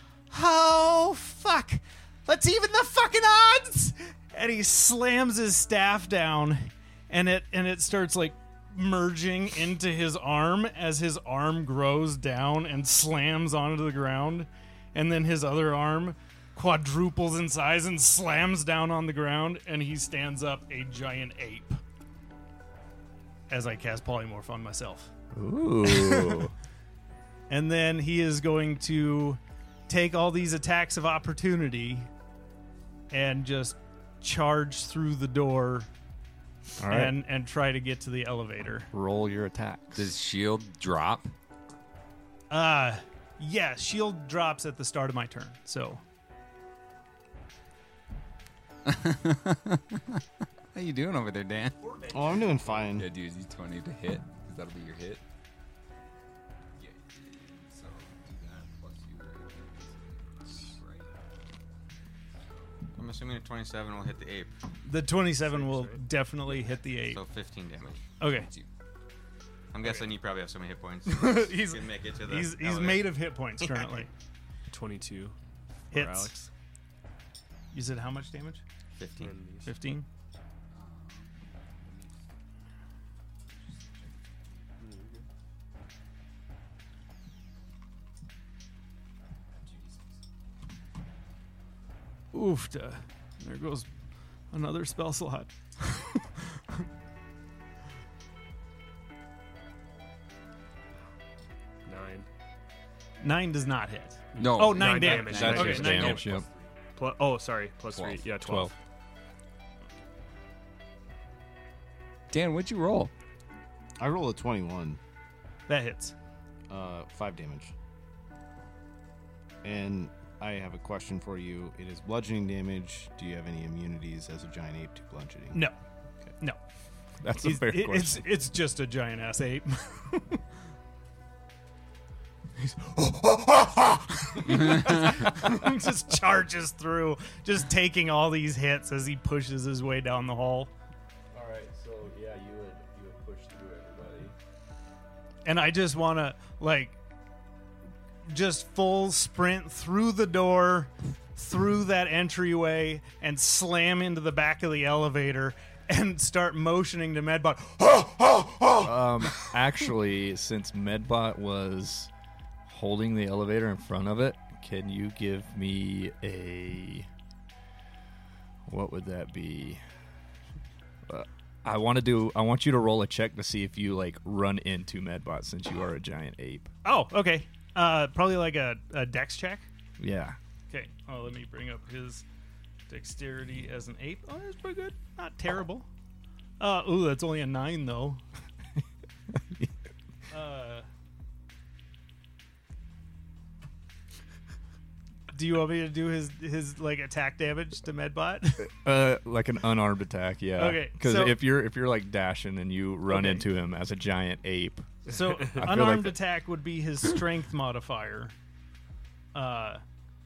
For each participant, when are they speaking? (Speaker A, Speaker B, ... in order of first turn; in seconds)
Speaker A: 0.3-21.8, 23.5-25.1, 25.8-26.4, 27.5-32.1, 33.1-35.9, 36.9-38.9, 42.5-46.0, 51.8-52.8, 64.8-67.2, 68.2-68.5, 71.1-74.1, 75.9-76.5, 77.7-78.6, 79.7-80.0, 92.3-93.9, 94.5-96.3, 103.2-106.2, 115.7-116.1, 127.4-130.4, 132.6-140.7, 145.4-147.0, 148.2-158.9, 176.8-179.7, 180.7-182.2, 182.9-185.9, 186.6-188.2, 190.3-190.9, 195.3-198.7, 200.6-201.4, 203.1-203.4, 205.1-208.3, 209.3-209.8
Speaker B: 25.3-26.5, 36.8-37.2, 38.9-40.1, 105.3-106.4, 108.4-108.7, 127.2-128.3, 141.3-144.3, 158.8-162.1, 162.7-167.1, 168.7-169.8, 171.1-176.7, 180.0-180.4, 189.3-189.7, 198.6-206.2
Speaker C: 39.9-41.3, 48.9-50.2, 50.7-55.2, 56.8-61.2, 62.3-62.8, 67.9-68.7, 80.7-82.2, 83.6-84.7, 89.5-90.2, 104.3-106.5, 107.9-108.2, 112.3-113.1
Speaker D: 52.1-53.1, 114.0-115.0, 116.7-117.7, 119.6-125.6
Speaker E: 63.0-64.5, 67.0-68.0, 69.7-73.1, 78.9-79.3
Speaker F: 65.4-66.0, 74.7-75.4, 75.9-76.5, 79.2-79.8, 84.8-85.2, 101.8-102.3, 104.3-108.8